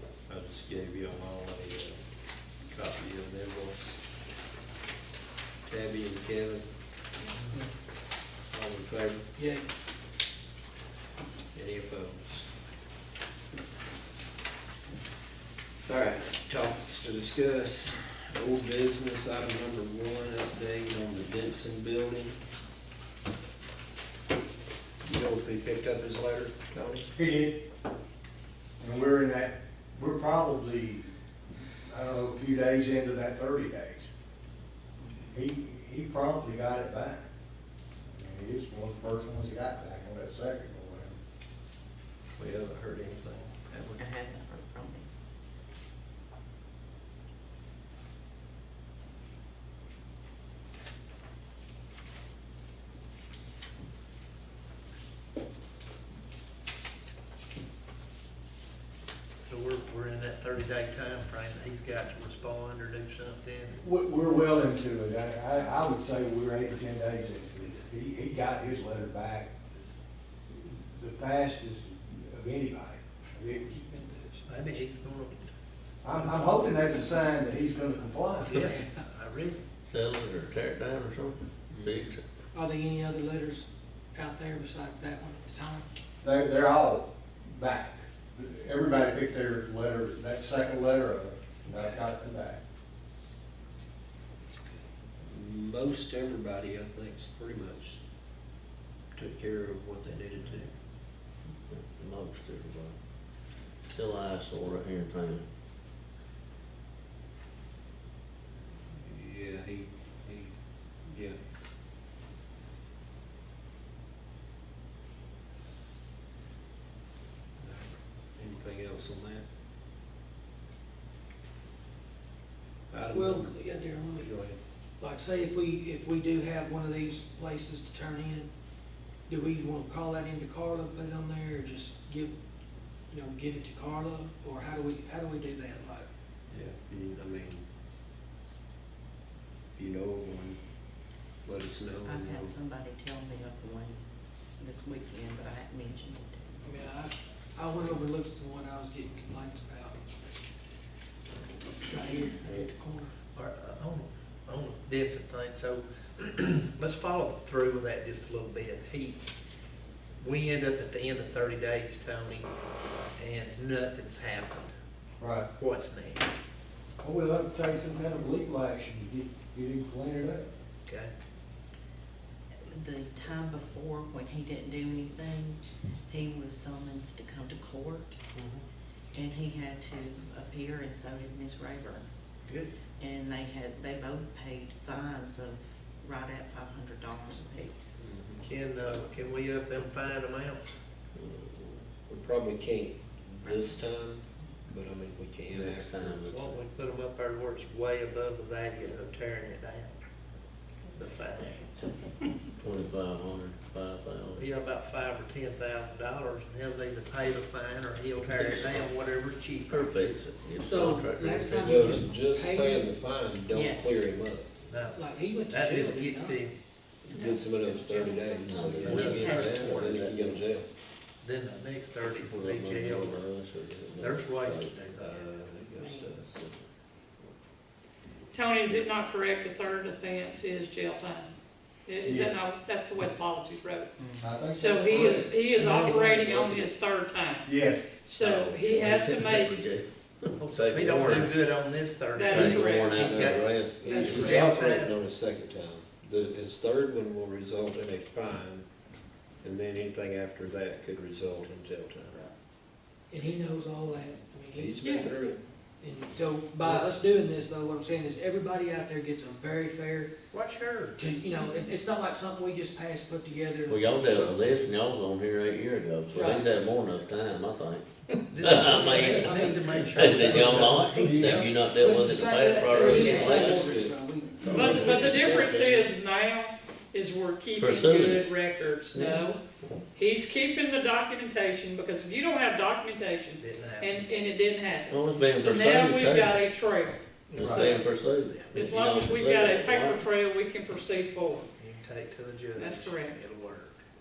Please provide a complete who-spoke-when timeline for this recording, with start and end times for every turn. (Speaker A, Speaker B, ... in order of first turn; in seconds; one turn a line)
Speaker A: 0.3-1.9
Speaker A: 2.7-4.0
Speaker A: 5.7-6.7
Speaker A: 8.5-9.2
Speaker B: 9.3-9.6
Speaker A: 11.5-12.5
Speaker A: 15.8-22.4
Speaker A: 25.0-27.1
Speaker C: 27.1-27.6
Speaker C: 28.8-31.1
Speaker C: 31.9-34.1
Speaker D: 35.0-35.3
Speaker C: 35.3-37.2
Speaker C: 38.1-41.2
Speaker A: 42.4-44.0
Speaker D: 44.0-45.1
Speaker E: 59.4-63.8
Speaker C: 63.8-69.5
Speaker C: 70.5-73.8
Speaker B: 73.9-74.4
Speaker E: 74.5-75.5
Speaker C: 76.0-78.7
Speaker E: 78.5-79.6
Speaker F: 79.8-82.2
Speaker A: 81.7-82.2
Speaker B: 82.5-85.8
Speaker C: 86.2-92.6
Speaker B: 91.7-92.0
Speaker A: 95.2-98.0
Speaker A: 99.1-100.7
Speaker F: 101.7-103.0
Speaker F: 103.9-105.4
Speaker A: 109.0-110.5
Speaker A: 111.0-111.4
Speaker A: 117.6-119.4
Speaker A: 122.9-124.6
Speaker B: 123.1-124.4
Speaker B: 125.0-128.5
Speaker B: 129.3-132.3
Speaker B: 133.1-136.1
Speaker A: 136.5-137.6
Speaker A: 139.8-140.6
Speaker A: 141.4-142.5
Speaker D: 142.0-144.0
Speaker D: 144.6-146.9
Speaker B: 146.6-150.0
Speaker B: 151.8-153.1
Speaker E: 153.3-159.2
Speaker E: 160.2-162.5
Speaker E: 163.2-164.7
Speaker C: 165.2-165.5
Speaker E: 165.6-166.3
Speaker C: 167.0-170.4
Speaker E: 170.8-171.1
Speaker D: 172.7-178.2
Speaker E: 178.3-178.6
Speaker D: 179.1-182.1
Speaker E: 182.4-182.7
Speaker D: 183.0-188.0
Speaker A: 188.0-188.4
Speaker E: 188.4-190.6
Speaker F: 191.2-191.5
Speaker A: 191.6-196.3
Speaker D: 193.4-193.8
Speaker F: 195.5-196.6
Speaker E: 196.3-200.0
Speaker E: 200.9-201.9
Speaker F: 202.6-204.5
Speaker E: 204.3-209.9
Speaker F: 208.3-208.9
Speaker F: 209.7-211.9
Speaker B: 210.6-212.9
Speaker A: 211.6-214.6
Speaker D: 213.5-214.1
Speaker E: 214.7-216.5
Speaker B: 214.9-216.4
Speaker A: 217.0-220.7
Speaker D: 217.1-219.6
Speaker B: 217.6-218.3
Speaker F: 218.5-220.4
Speaker E: 218.8-219.8
Speaker E: 221.2-223.2
Speaker F: 222.3-224.6
Speaker E: 224.0-225.4
Speaker A: 224.4-226.5
Speaker D: 225.8-226.1
Speaker G: 228.3-231.3
Speaker G: 231.8-233.9
Speaker C: 232.0-232.4
Speaker D: 234.0-234.4
Speaker C: 234.2-235.3
Speaker G: 234.5-239.6
Speaker A: 235.7-236.6
Speaker C: 237.4-237.9
Speaker F: 238.3-241.3
Speaker E: 240.4-244.9
Speaker G: 242.1-243.0
Speaker F: 242.4-244.3
Speaker A: 242.9-248.7
Speaker G: 243.8-244.4
Speaker A: 249.4-252.2
Speaker B: 253.1-260.1
Speaker A: 254.5-255.4
Speaker E: 260.3-261.0
Speaker B: 261.0-264.6
Speaker F: 263.7-267.9
Speaker B: 266.1-266.5
Speaker E: 268.3-271.5
Speaker F: 268.4-269.4
Speaker B: 268.7-270.3
Speaker F: 270.0-273.6
Speaker A: 271.0-271.4
Speaker B: 271.3-274.5
Speaker A: 272.6-275.9
Speaker E: 273.1-273.6
Speaker G: 274.5-279.4
Speaker F: 277.6-278.2
Speaker A: 278.9-279.2
Speaker G: 279.9-287.0
Speaker E: 283.4-284.1
Speaker F: 284.9-286.4
Speaker E: 287.3-288.5
Speaker C: 287.4-287.7
Speaker F: 287.4-290.0
Speaker G: 288.5-291.5
Speaker E: 291.6-293.8
Speaker G: 292.6-293.2